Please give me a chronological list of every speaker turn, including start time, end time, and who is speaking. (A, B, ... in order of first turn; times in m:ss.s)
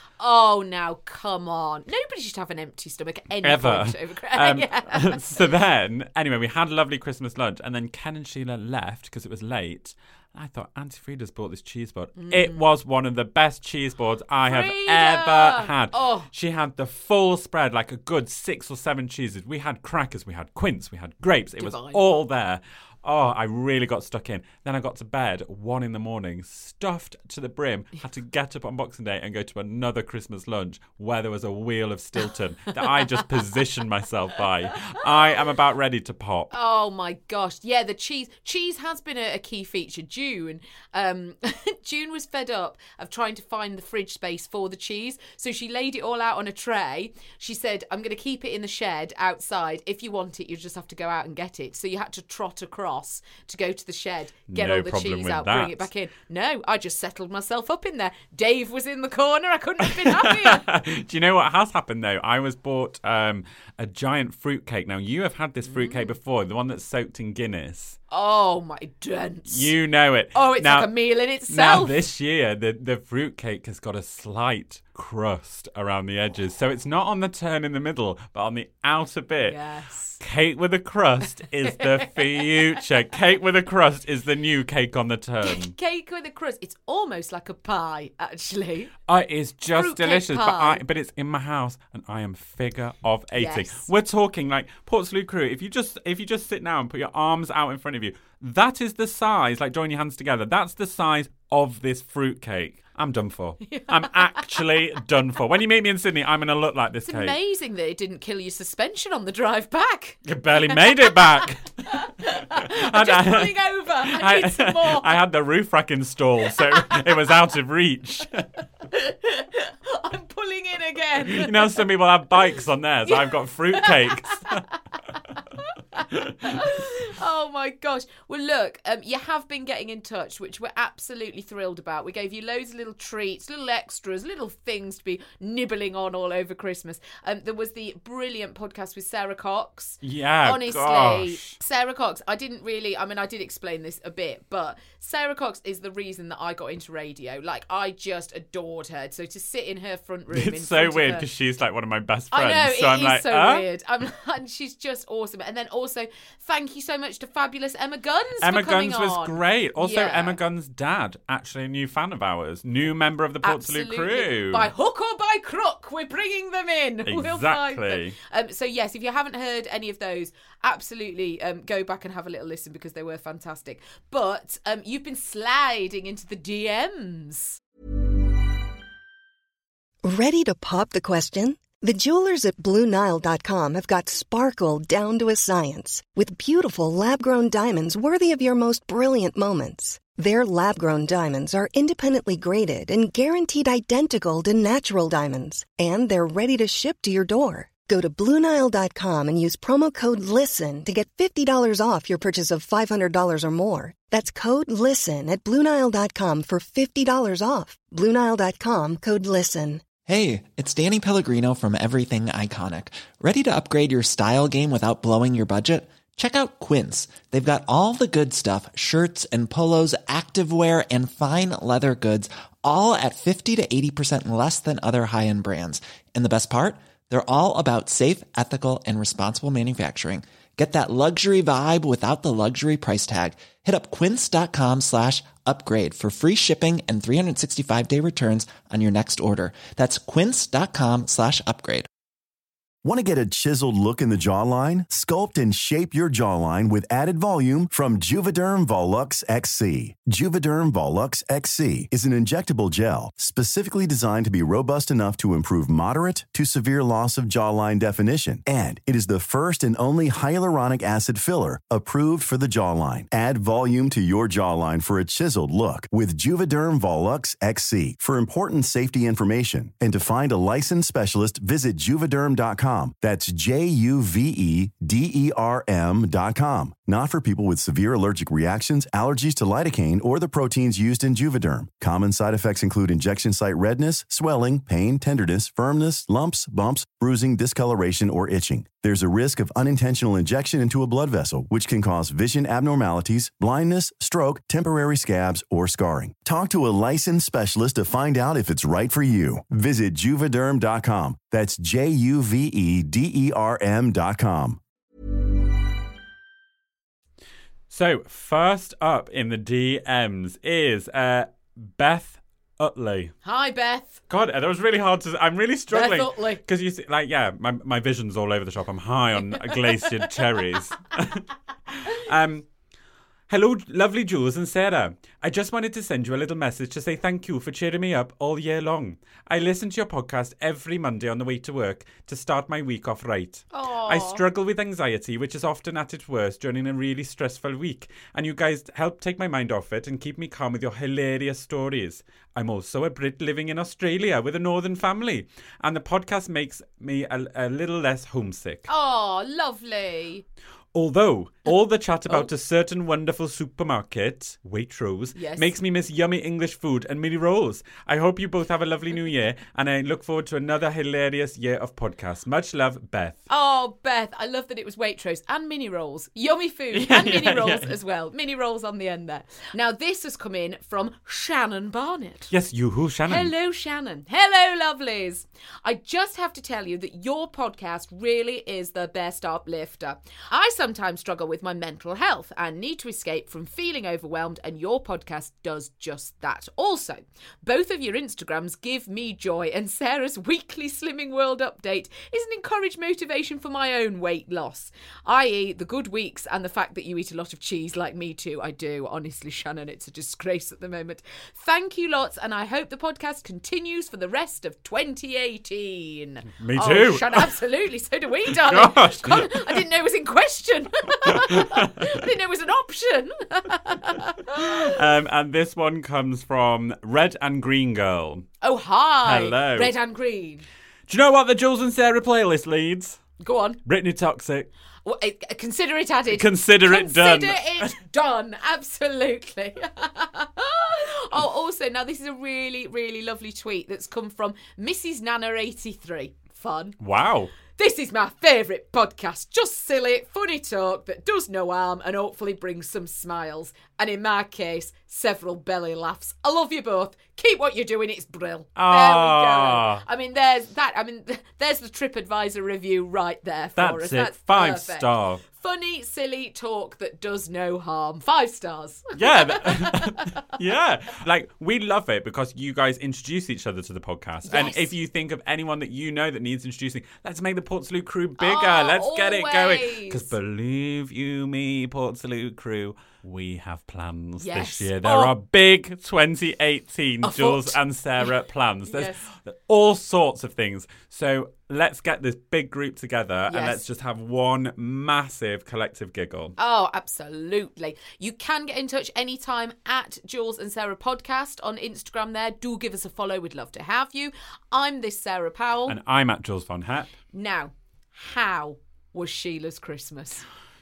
0:00.2-0:05.4 A
0:03.4-0:36.5 B
0:12.2-0:12.6 A
0:14.4-0:16.3 A
0:21.6-0:22.0 A
0:36.5-1:00.6 A
0:54.5-0:55.9 B
0:59.9-1:08.0 B
1:05.7-1:06.1 A
1:08.1-1:09.7 A
1:09.5-1:11.0 B
1:10.3-1:12.0 A
1:11.5-1:19.6 B
1:19.4-1:20.2 A
1:20.2-1:25.7 B
1:21.6-1:22.6 A
1:25.4-1:28.9 A
1:29.1-1:47.4 B
1:29.7-1:30.8 A
1:33.3-1:33.8 A
1:43.7-1:44.6 A
1:47.0-1:55.2 A
1:50.2-1:58.6 B
1:56.7-1:57.0 A
1:58.9-2:01.8 A
2:01.2-2:04.6 B
2:03.0-2:04.8 A
2:05.6-2:31.2 A
2:06.1-2:06.5 B
2:20.0-2:21.6 B
2:30.3-2:33.6 B
2:32.3-2:40.4 A
2:38.4-2:44.7 B
2:43.4-2:57.6 A
2:47.0-2:48.2 B
3:00.0-3:29.8 C
3:30.0-4:01.9 D
4:02.8-5:04.6 E
5:07.7-5:13.1 B
5:13.2-5:14.0 A
5:14.1-5:22.5 B
5:15.7-5:16.4 A
5:23.3-5:48.7 B
5:33.5-5:34.2 A
5:48.7-5:50.2 A
5:50.7-6:03.2 B
5:55.1-5:55.5 A
6:03.3-6:12.3 A
6:06.7-6:07.7 B
6:12.3-6:13.3 B
6:13.1-6:54.8 A
6:46.4-6:47.4 B
6:48.3-6:49.6 B
6:54.5-6:58.3 B
6:58.4-7:00.4 A
6:59.0-6:59.7 B
7:00.9-7:03.0 B
7:03.2-7:03.6 A
7:03.6-7:04.5 B
7:04.8-7:16.8 A
7:06.1-7:07.7 B
7:16.8-7:17.3 B
7:17.5-7:40.1 A
7:28.6-7:29.8 B
7:33.6-7:35.2 B
7:39.0-8:06.4 B
7:44.2-7:44.7 A
7:48.2-7:50.1 A
7:54.2-7:55.1 A
7:57.0-7:58.1 A
7:58.7-7:59.0 A
8:03.3-8:03.6 A
8:06.4-8:15.8 A
8:15.7-8:16.9 B
8:17.1-8:20.2 A